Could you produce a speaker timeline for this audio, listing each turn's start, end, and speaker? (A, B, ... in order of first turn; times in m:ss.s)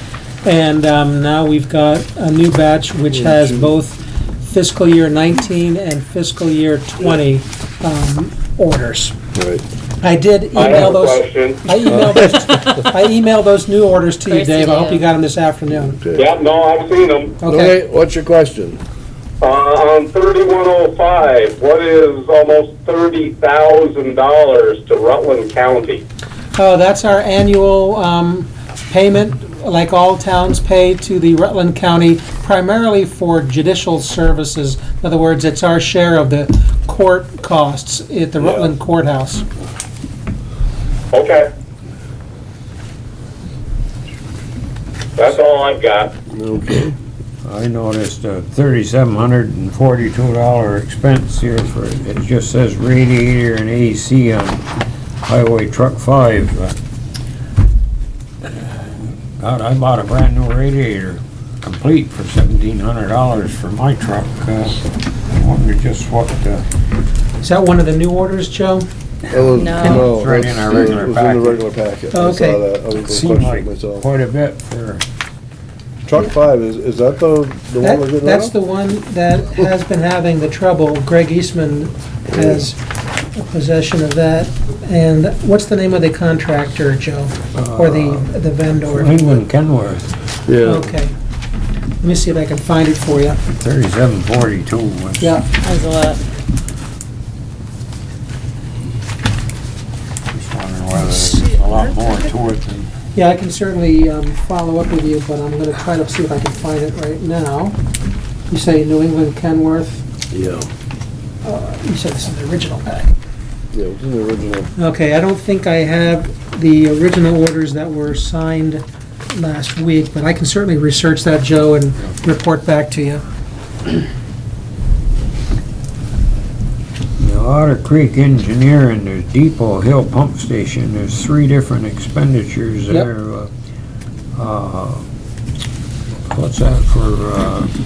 0:00.4-0:09.2 A
0:03.1-0:03.8 B
0:09.3-0:09.6 B
0:10.0-0:16.0 A
0:10.5-0:11.6 C
0:11.8-0:12.9 B
0:14.3-0:15.0 D
0:15.7-0:16.3 B
0:16.1-0:17.4 C
0:17.4-0:17.8 A
0:17.4-0:18.8 B
0:19.4-0:26.0 C
0:26.5-0:39.4 A
0:38.4-0:38.7 B
0:41.1-0:41.4 C
0:45.2-0:46.1 C
0:46.3-0:47.0 B
0:47.4-0:54.7 E
0:55.2-0:56.7 E
0:58.5-0:58.8 E
0:59.4-1:06.6 E
1:07.4-1:08.9 A
1:09.3-1:14.1 B
1:09.5-1:10.1 D
1:09.8-1:11.6 E
1:12.1-1:12.6 A
1:13.0-1:15.0 E
1:16.0-1:18.5 B
1:17.8-1:22.8 A
1:22.3-1:22.7 B
1:23.3-1:29.4 A
1:27.5-1:30.1 E
1:30.4-1:30.9 B
1:30.6-1:31.1 A
1:32.0-1:33.4 A
1:33.5-1:35.4 E
1:35.2-1:35.5 A
1:35.6-1:36.2 D
1:40.3-1:42.9 E
1:43.1-1:47.8 A
1:48.5-1:50.1 A
1:50.3-1:50.7 B
1:51.4-1:53.1 A
1:53.7-1:54.7 B
1:54.8-2:03.2 A
2:07.2-2:13.5 E
2:14.3-2:15.1 E
2:16.3-2:17.7 E